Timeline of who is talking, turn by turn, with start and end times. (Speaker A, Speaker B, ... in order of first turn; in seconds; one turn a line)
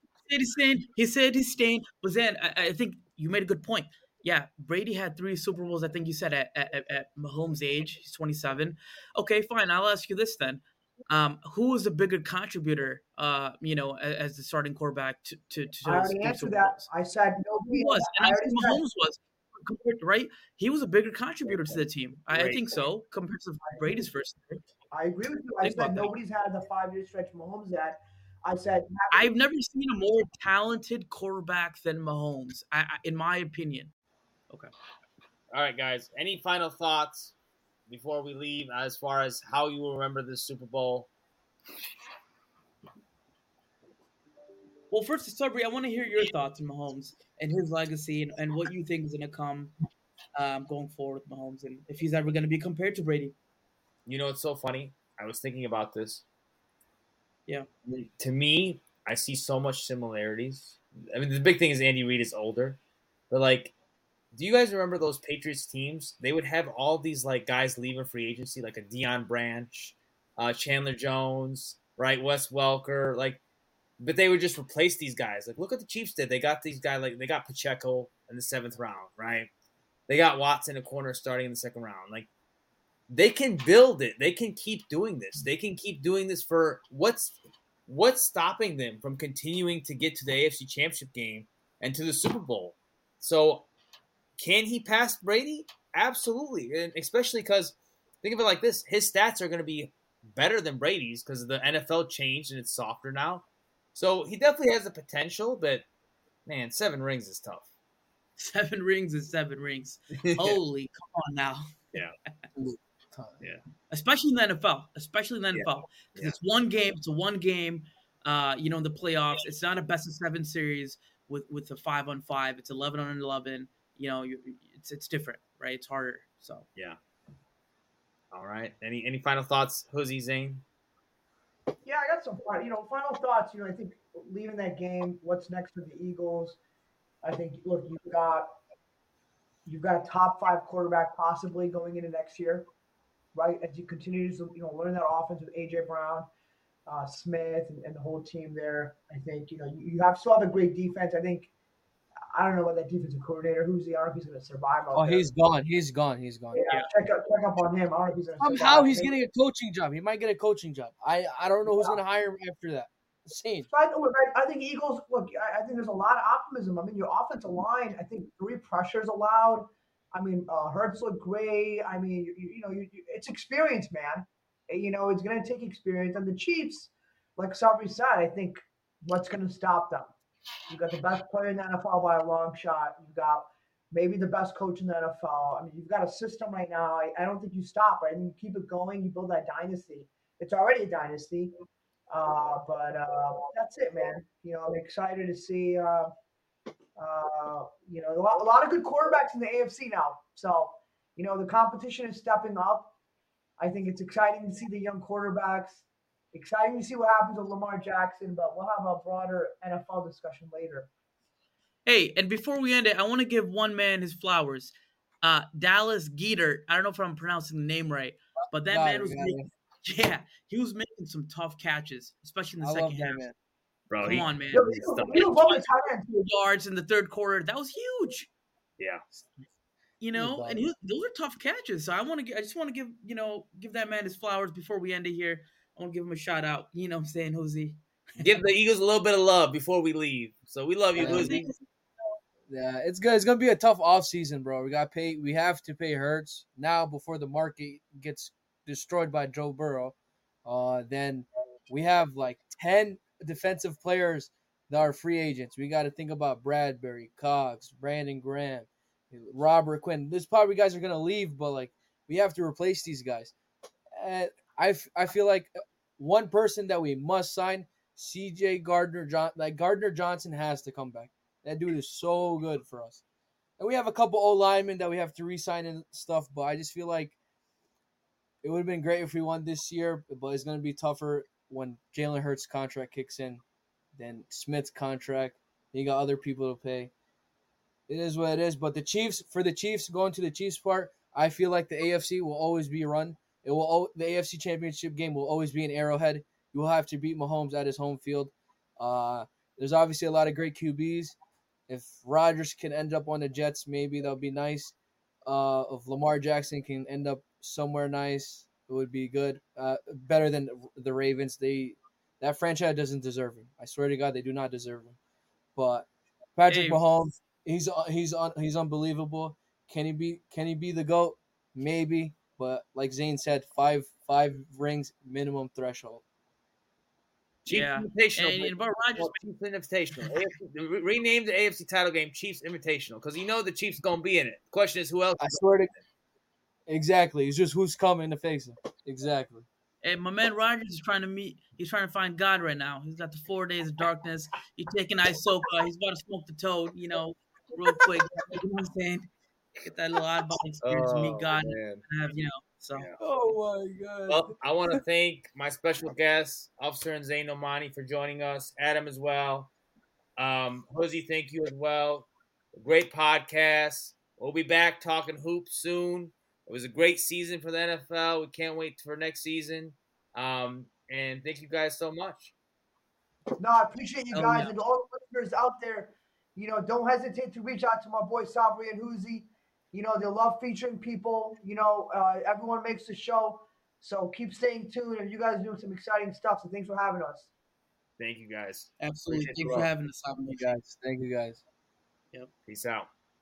Speaker A: 0.3-16.9
Speaker B: 15.8-18.8
Speaker A: 17.7-24.6
Speaker C: 22.3-22.7
Speaker B: 24.9-29.3
Speaker A: 25.6-26.1
Speaker A: 29.1-33.9
Speaker C: 35.5-37.4
Speaker C: 37.9-41.1
Speaker A: 44.9-49.8
Speaker A: 50.4-53.4
Speaker C: 54.1-56.2
Speaker C: 57.9-62.8
Speaker C: 63.3-63.7
Speaker C: 64.3-73.4
Speaker C: 74.0-79.5
Speaker C: 80.1-82.3
Speaker C: 83.1-93.7
Speaker C: 94.4-105.9
Speaker C: 106.5-107.7
Speaker A: 108.4-111.8
Speaker C: 110.2-110.6
Speaker D: 112.6-113.3
Speaker A: 113.9-126.7
Speaker C: 115.5-116.4
Speaker C: 128.3-130.6
Speaker B: 131.8-136.6
Speaker B: 137.2-138.5
Speaker B: 139.7-142.7
Speaker B: 143.3-146.3
Speaker B: 146.9-151.5
Speaker B: 152.3-155.3
Speaker D: 154.9-156.6
Speaker B: 156.5-159.2
Speaker D: 158.4-163.7
Speaker B: 163.7-180.1
Speaker B: 180.7-191.5
Speaker B: 192.1-196.1
Speaker B: 197.0-202.9
Speaker B: 203.6-210.9
Speaker A: 211.9-223.2
Speaker D: 218.6-219.5
Speaker D: 222.6-223.3
Speaker C: 223.9-225.3
Speaker A: 224.0-225.7
Speaker B: 224.5-226.3
Speaker A: 226.2-228.3
Speaker A: 230.0-238.3
Speaker D: 230.2-230.7
Speaker C: 238.2-241.5
Speaker D: 241.0-241.4
Speaker A: 241.0-241.5
Speaker D: 242.5-263.3
Speaker D: 263.9-273.0
Speaker D: 273.6-277.2
Speaker D: 278.4-283.4
Speaker D: 284.0-286.9
Speaker D: 287.9-301.2
Speaker D: 301.7-304.8
Speaker D: 305.3-315.0
Speaker D: 315.6-326.0
Speaker A: 316.5-316.8
Speaker C: 327.5-335.8
Speaker A: 327.5-329.2
Speaker D: 335.2-335.7
Speaker D: 336.7-339.5
Speaker A: 339.8-352.9
Speaker C: 350.6-351.9
Speaker D: 353.0-354.8
Speaker C: 354.1-359.5
Speaker C: 360.2-372.3
Speaker B: 373.4-387.3
Speaker A: 374.1-374.5
Speaker C: 388.0-389.7
Speaker A: 388.8-390.6
Speaker D: 390.4-391.4
Speaker C: 392.5-392.9